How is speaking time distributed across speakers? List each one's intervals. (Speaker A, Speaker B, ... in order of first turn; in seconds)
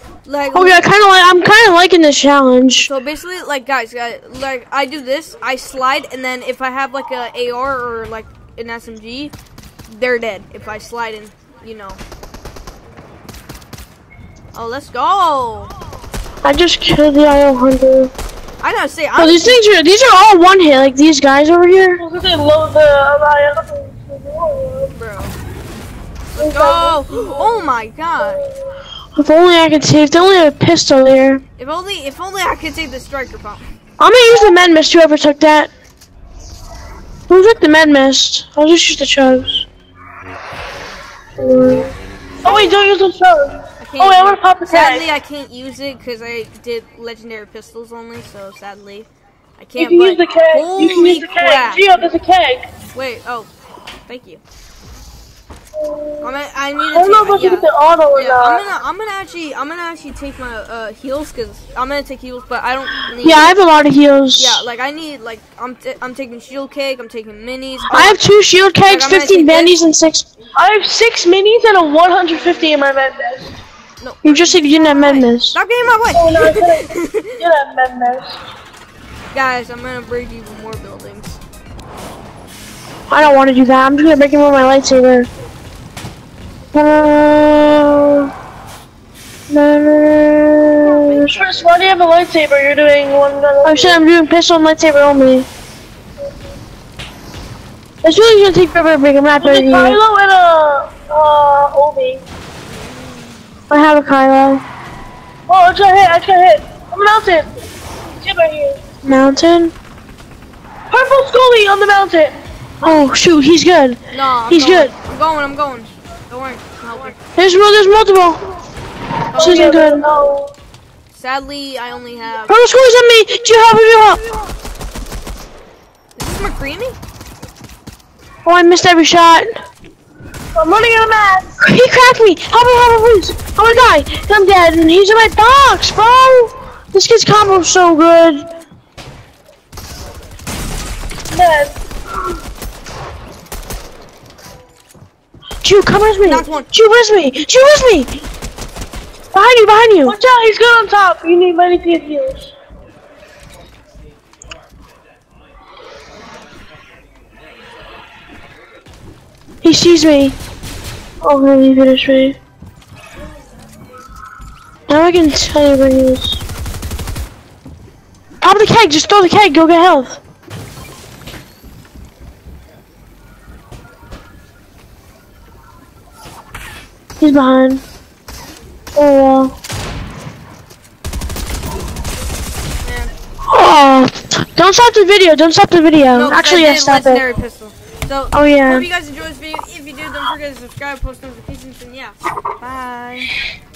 Speaker A: 0.2-0.9, 2.9-9.3, 9.9-12.0, 14.5-15.7, 18.6-19.6, 24.9-25.4, 26.3-28.4, 31.6-33.7, 42.4-42.7, 43.8-52.0, 52.9-53.5, 54.1-54.4, 56.2-63.6, 64.3-68.2, 68.9-69.8, 74.0-77.3, 79.3-81.4, 90.8-91.7, 102.7-103.5, 114.1-117.2, 119.3-119.9, 121.1-122.6, 126.2-127.0, 133.6-133.9, 146.2-146.7, 182.8-183.1, 186.1-193.3
Speaker B: 0.5-2.9, 16.4-18.1, 19.2-22.0, 29.1-31.4, 34.0-35.7, 37.3-39.7, 41.4-41.9, 63.2-64.7, 67.9-70.3, 74.2-75.6, 83.1-85.3, 86.7-88.3, 89.5-91.4, 93.6-95.5, 98.0-100.0, 103.7-104.6, 109.0-109.7, 112.8-114.9, 117.3-118.4, 119.4-120.1, 122.5-124.2, 128.4-129.6, 131.6-138.4, 145.6-148.2, 149.3-150.2, 159.6-160.4, 161.2-162.4, 164.9-166.4, 168.4-170.2, 177.2-177.8, 179.0-179.6, 183.5-187.2, 188.3-188.9
Speaker C: 22.0-24.9, 26.4-27.6, 42.4-45.0, 49.8-52.7, 55.8-56.3, 56.9-58.6, 70.6-73.6, 76.1-78.4, 91.3-94.0, 99.4-102.2, 105.5-107.6, 108.1-108.8, 110.9-112.4, 119.3-120.5, 130.6-131.6, 141.3-141.8, 150.1-152.5